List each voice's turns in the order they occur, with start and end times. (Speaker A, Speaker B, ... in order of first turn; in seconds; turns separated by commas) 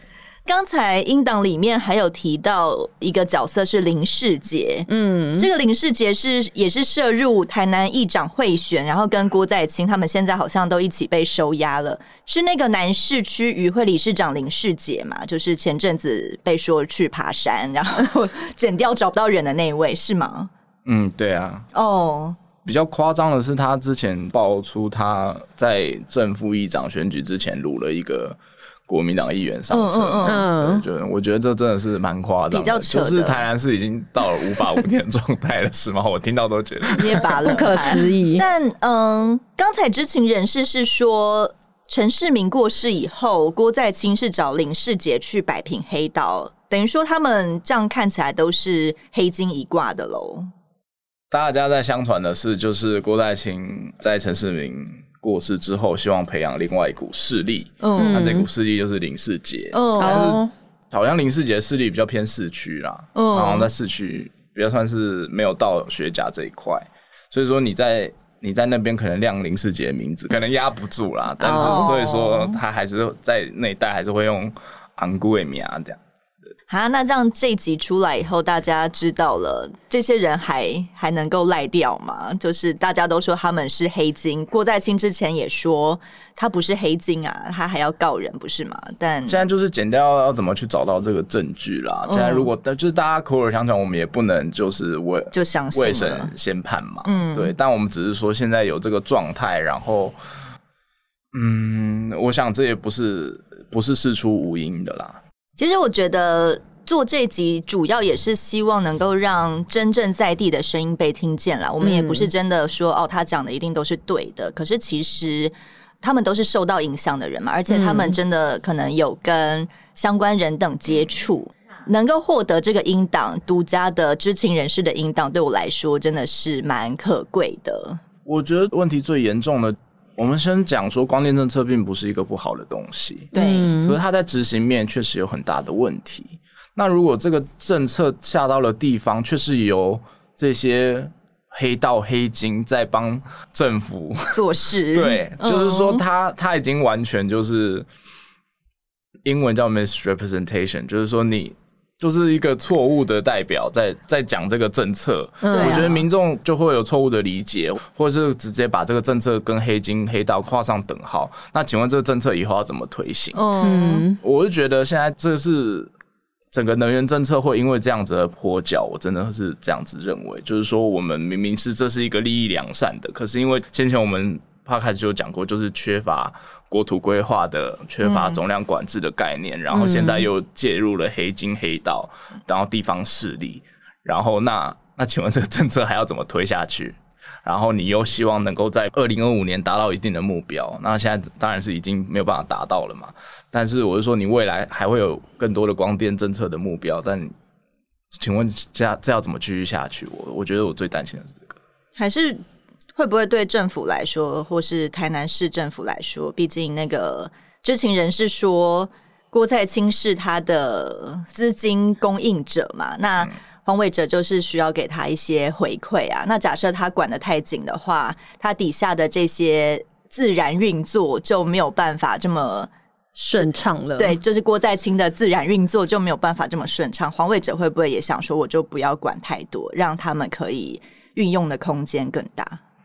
Speaker A: 0.5-20.5, Speaker B: 4.9-5.5, Speaker C: 20.9-21.7, Speaker A: 21.7-22.4, Speaker C: 22.6-37.5, Speaker A: 29.7-30.5, Speaker B: 30.2-30.8, Speaker A: 32.5-33.4, Speaker A: 37.0-50.5, Speaker B: 37.4-38.4, Speaker C: 51.3-76.0, Speaker A: 57.8-58.2, Speaker B: 58.0-58.5, Speaker A: 59.7-60.4, Speaker B: 60.0-60.5, Speaker A: 63.1-63.7, Speaker B: 71.4-72.2, Speaker A: 71.5-72.6, Speaker A: 76.7-89.4, Speaker C: 89.3-100.2, Speaker A: 92.1-92.5, Speaker A: 95.3-96.3, Speaker A: 97.0-97.5, Speaker C: 101.3-105.2, Speaker A: 105.6-128.0, Speaker B: 111.8-112.3, Speaker B: 117.7-118.1, Speaker C: 128.2-144.4, Speaker B: 133.3-134.0, Speaker A: 133.3-133.8, Speaker A: 144.3-146.0, Speaker C: 144.9-147.9, Speaker C: 149.2-163.4, Speaker B: 155.4-156.0, Speaker A: 155.5-156.0, Speaker A: 163.3-164.1, Speaker B: 163.6-164.2, Speaker C: 164.2-165.9, Speaker C: 166.5-197.3, Speaker A: 178.0-178.4, Speaker B: 179.7-180.3, Speaker C: 198.2-201.6, Speaker A: 202.0-202.4, Speaker A: 202.9-222.7, Speaker B: 223.2-224.2, Speaker A: 223.4-232.6